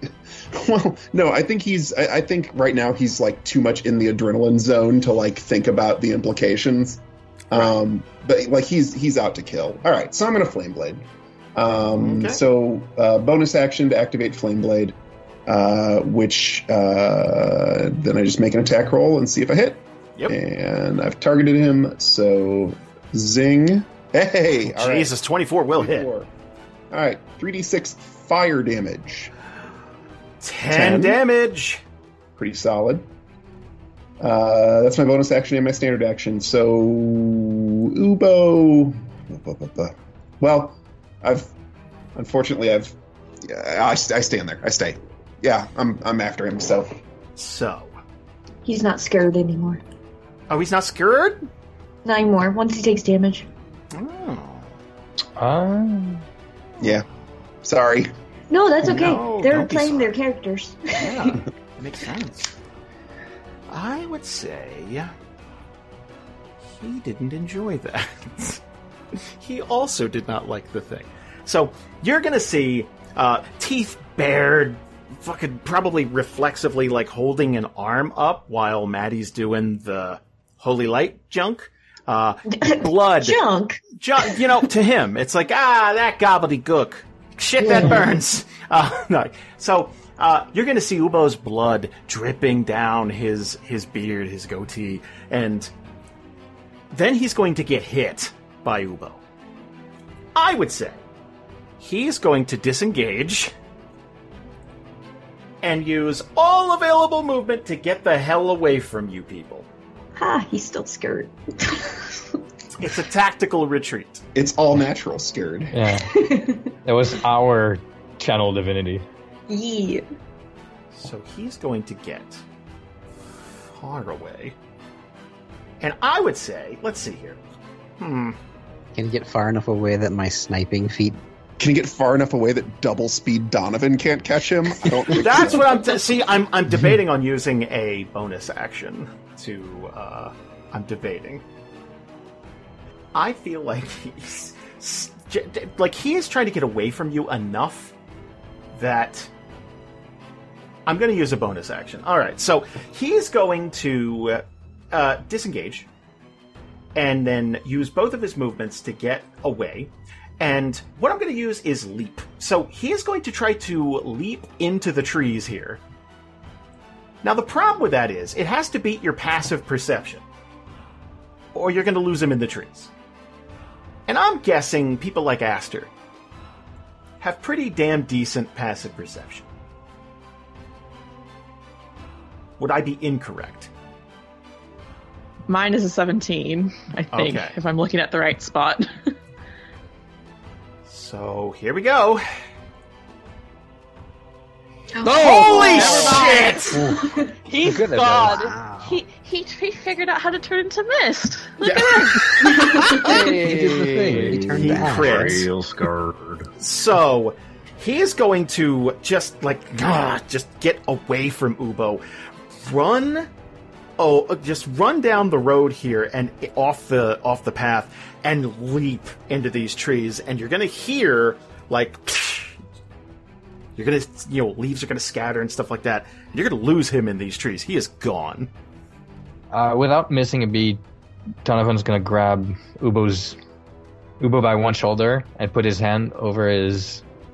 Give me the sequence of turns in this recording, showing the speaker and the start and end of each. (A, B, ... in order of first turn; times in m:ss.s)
0:00.5-0:15.0 A
0:11.9-0:12.4 B
0:15.5-0:25.1 A
0:24.6-0:26.1 B
0:25.8-0:26.3 A
0:26.9-0:29.3 A
0:30.4-0:31.8 B
0:30.7-0:31.2 A
0:32.4-0:33.0 A
0:34.2-0:41.5 A
0:42.2-0:46.9 A
0:47.4-0:47.9 B
0:48.6-0:49.8 C
0:50.5-0:51.4 B
0:52.0-0:53.5 C
0:53.9-0:54.8 B
0:55.4-0:56.2 D
0:56.8-0:57.0 A
0:57.6-0:58.1 A
0:58.5-1:01.4 C
0:58.8-1:00.2 B
1:00.9-1:02.5 B
1:03.7-1:05.1 B
1:06.6-1:08.6 B
1:09.3-1:23.4 B
1:22.5-1:24.5 C
1:24.0-1:35.7 B
1:27.6-1:28.1 C
1:36.9-1:39.2 B
1:40.3-1:41.0 B
1:41.8-1:43.5 B
1:45.6-1:49.7 B
1:50.2-1:52.4 C
1:52.8-1:54.2 B
1:54.3-1:55.8 A
1:55.7-1:56.1 D
1:56.1-1:56.7 C
1:56.8-1:59.0 D
1:59.5-2:00.1 C
2:00.9-2:02.4 B
2:03.7-2:04.5 B
2:05.8-2:07.4 B
2:08.0-2:08.4 B
2:08.9-2:11.2 E
2:11.6-2:15.8 A
2:15.1-2:21.4 B
2:23.1-2:27.9 B
2:28.7-2:29.3 B
2:30.8-2:35.9 B
2:36.9-2:45.8 B
2:47.2-2:50.2 B
2:51.5-2:52.9 B
2:54.1-2:55.9 B
2:57.2-2:59.4 B
3:02.6-3:03.7 B
3:05.5-3:09.1 F
3:07.1-3:07.5 B
3:10.9-3:12.2 B
3:15.0-3:16.2 C
3:15.0-3:16.8 F
3:15.1-3:16.9 B
3:15.7-3:16.3 D
3:15.8-3:16.1 E
3:16.9-3:17.3 C
3:17.4-3:22.3 F
3:17.6-3:18.3 D
3:17.9-3:19.0 E
3:22.1-3:22.8 B
3:22.4-3:23.0 C
3:22.8-3:25.5 E
3:23.2-3:24.4 D
3:23.9-3:26.5 G
3:24.5-3:25.5 B
3:26.6-3:33.3 B
3:34.0-3:42.6 B
3:43.8-3:48.5 B
3:49.5-3:50.8 D
3:51.4-3:53.4 D
3:54.2-3:57.0 D